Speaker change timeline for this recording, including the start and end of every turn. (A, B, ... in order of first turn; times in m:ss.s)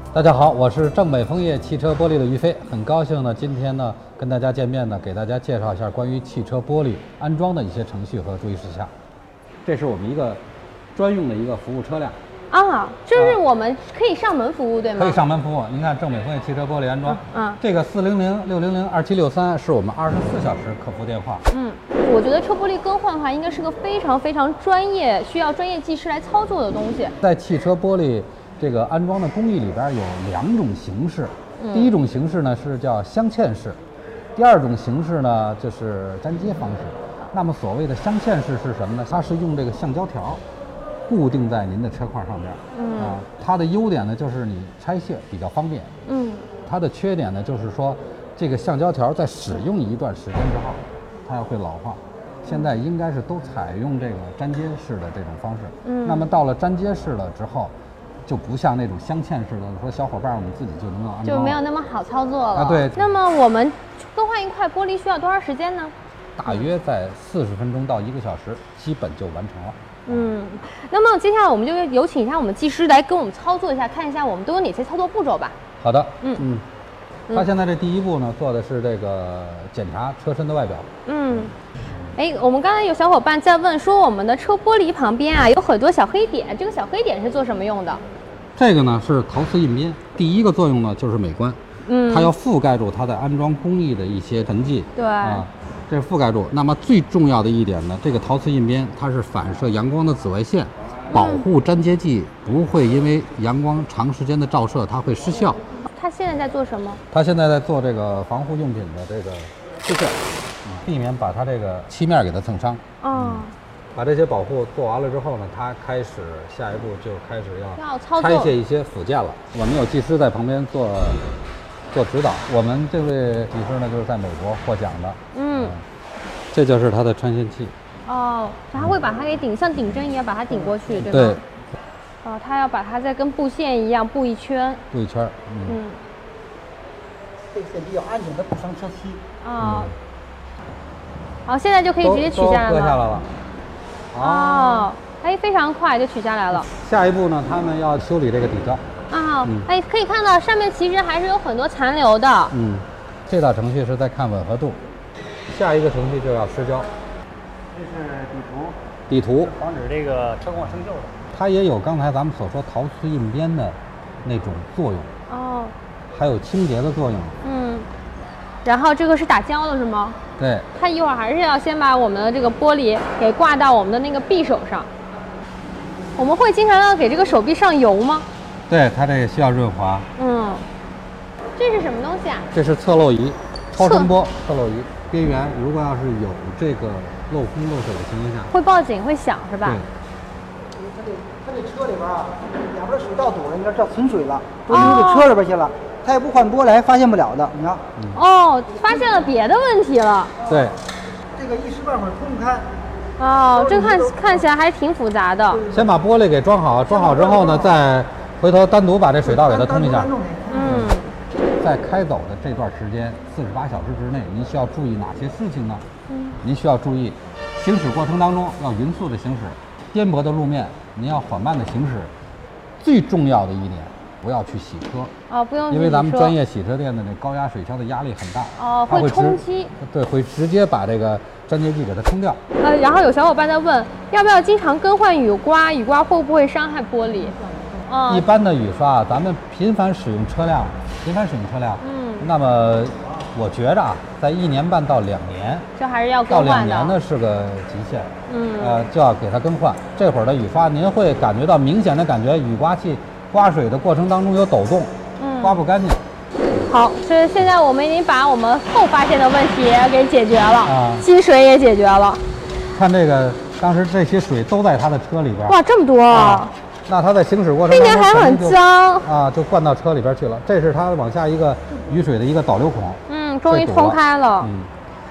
0:00.1-0:08.9 A
0:09.6-0:10.4 A
0:10.9-0:12.2 A
0:12.5-0:15.2 B
0:13.1-0:13.4 A
0:15.0-0:21.4 A
0:17.1-0:17.6 B
0:21.5-0:27.2 B
0:27.2-0:33.8 A
0:31.6-0:31.9 B
0:34.3-0:40.4 A
0:41.1-0:45.9 A
0:42.7-0:43.2 B
0:46.0-0:46.4 B
0:46.6-0:57.7 A
0:55.8-0:56.3 B
0:58.2-1:01.6 A
1:01.2-1:05.9 B
1:02.5-1:03.1 A
1:06.4-1:10.3 A
1:10.1-1:15.6 B
1:15.8-1:16.6 A
1:17.3-1:20.9 A
1:21.0-1:21.5 B
1:22.2-1:28.0 B
1:28.6-1:45.6 A
1:31.8-1:32.3 B
1:35.0-1:35.4 B
1:41.1-1:41.4 B
1:45.9-1:47.0 B
1:47.1-2:01.2 A
1:53.0-1:53.5 B
1:57.8-1:58.5 B
2:01.9-2:05.8 A
2:05.3-2:05.7 B
2:06.5-2:07.7 A
2:08.1-2:11.4 B
2:11.0-2:11.4 A
2:12.2-2:14.8 B
2:14.9-2:15.8 A
2:15.7-2:16.0 B
2:17.5-2:19.2 C
2:19.4-2:19.9 B
2:19.6-2:19.9 A
2:21.4-2:23.0 B
2:22.0-2:23.3 A
2:24.1-2:24.9 A
2:24.2-2:26.6 B
2:26.6-2:28.8 A
2:29.1-2:32.5 B
2:32.5-2:34.8 A
2:35.5-2:36.9 A
2:37.7-2:38.8 C
2:39.1-2:39.5 A
2:39.4-2:41.2 C
2:41.3-2:45.1 A
2:45.3-2:45.7 B
2:46.1-2:47.4 A
2:47.4-2:47.9 B
2:48.6-2:50.2 B
2:50.4-2:50.7 A
2:50.7-2:54.9 B
2:56.2-2:58.3 B
2:58.7-3:00.1 A
3:00.2-3:00.7 B
3:01.6-3:02.5 B
3:02.5-3:08.5 A
3:03.8-3:04.1 B
3:08.5-3:09.8 B
3:10.8-3:17.8 C
3:14.7-3:15.0 A
3:14.7-3:15.3 B
3:18.1-3:20.4 B
3:20.4-3:20.8 A
3:21.3-3:22.7 C
3:23.2-3:25.7 B
3:23.7-3:24.2 C
3:25.6-3:30.9 A
3:27.0-3:27.5 C
3:29.3-3:30.6 C
3:30.4-3:31.1 B
3:31.6-3:35.8 A
3:36.1-3:36.4 B
3:36.4-3:42.1 A
3:42.8-3:45.1 A
3:45.3-3:46.3 B
3:45.7-3:52.4 A
3:48.6-3:49.7 B
3:52.6-3:58.3 B
3:58.1-4:05.7 A
4:01.8-4:02.3 B
4:05.8-4:07.0 B
4:06.3-4:16.0 A
4:08.3-4:08.8 B
4:15.2-4:15.6 B
4:16.6-4:22.2 B
4:20.6-4:21.0 A
4:22.7-4:25.6 A
4:25.5-4:26.5 B
4:26.1-4:34.7 A
4:27.7-4:29.1 B
4:33.1-4:34.5 B